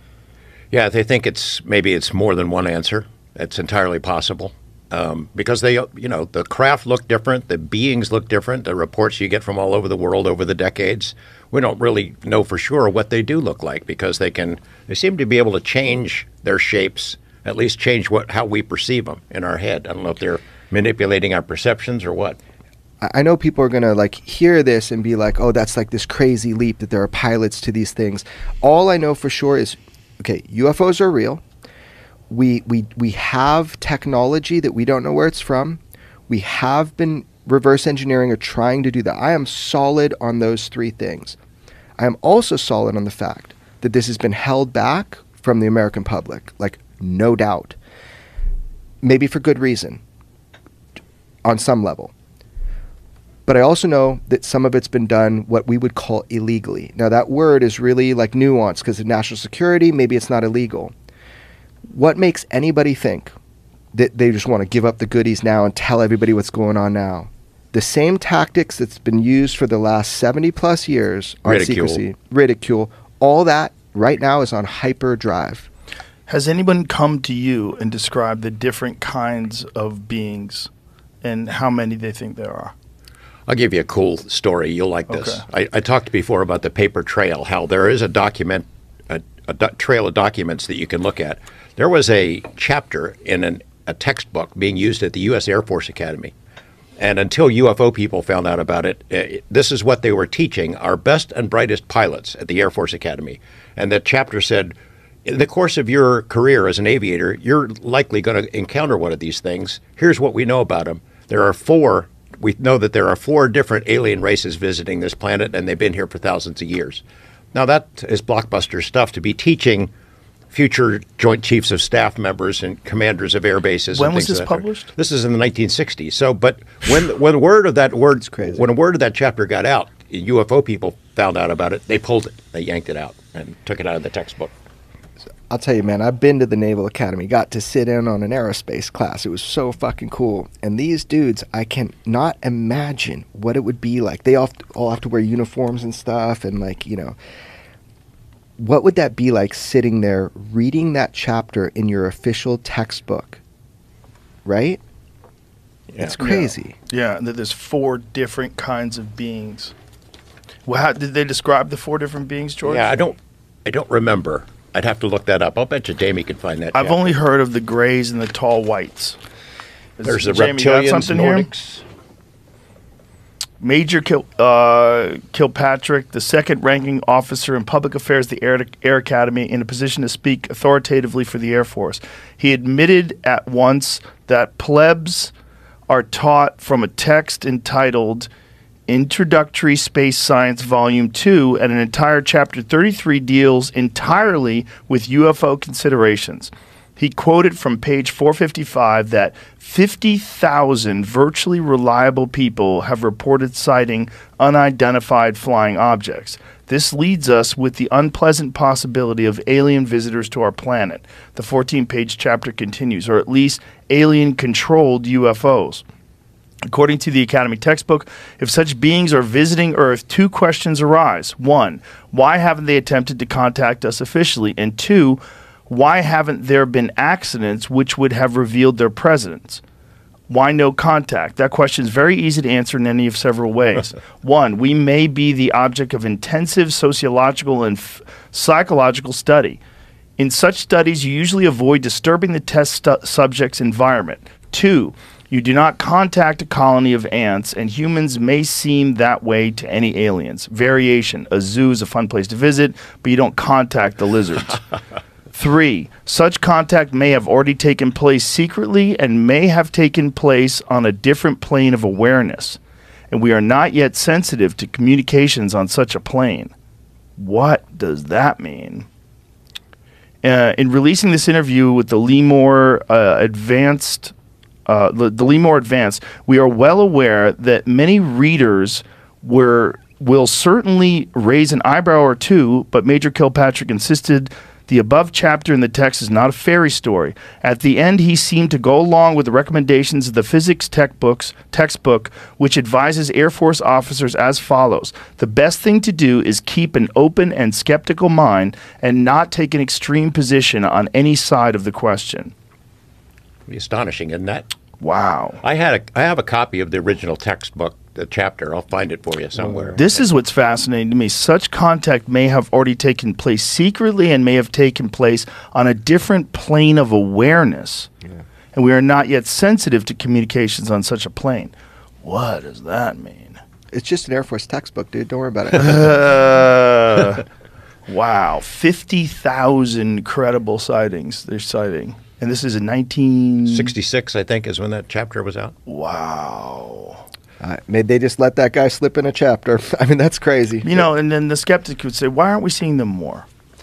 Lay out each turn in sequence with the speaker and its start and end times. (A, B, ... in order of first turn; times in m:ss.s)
0:00.7-0:22.4 A
0:23.0-0:31.4 B
0:32.3-0:41.4 B
0:42.0-0:47.8 B
0:49.0-0:50.0 B
0:51.4-0:52.1 B
0:53.5-1:00.9 B
1:01.9-1:03.3 B
1:03.9-1:15.7 B
1:11.5-1:12.0 A
1:16.3-1:20.7 C
1:21.2-1:22.7 C
1:23.5-1:36.3 A
1:25.1-1:25.4 C
1:37.0-1:57.0 A
1:57.5-1:59.9 A
2:00.5-2:14.5 A
2:03.9-2:04.9 C
2:08.2-2:08.6 B
2:15.5-2:27.2 B
2:28.6-2:33.4 B
2:34.4-2:34.8 B
2:35.9-2:36.2 A
2:36.0-2:36.8 B
2:36.2-2:39.8 C
2:40.6-2:43.0 C
2:42.6-2:47.1 A
2:46.7-2:49.2 C
2:50.0-2:51.5 C
2:50.0-2:51.8 A
2:53.6-3:05.3 C
3:05.9-3:08.3 C
3:08.9-3:35.8 C
3:36.6-3:49.6 C
3:50.3-3:59.6 C
4:00.2-4:14.6 C
4:15.3-4:22.6 C
4:23.1-4:26.5 C
4:27.2-4:28.9 C
4:30.2-4:34.1 C
4:34.7-5:02.3 C
5:03.5-5:04.5 A
5:04.8-5:05.4 C
5:05.4-5:10.0 A
5:09.4-5:09.8 B
5:09.8-5:17.9 C
5:18.5-5:23.4 C
5:23.7-5:26.0 B
5:25.6-5:27.2 C
5:27.9-5:33.7 C
5:33.5-5:35.6 A
5:35.7-5:37.0 C
5:37.4-5:40.8 B
5:40.6-5:43.3 C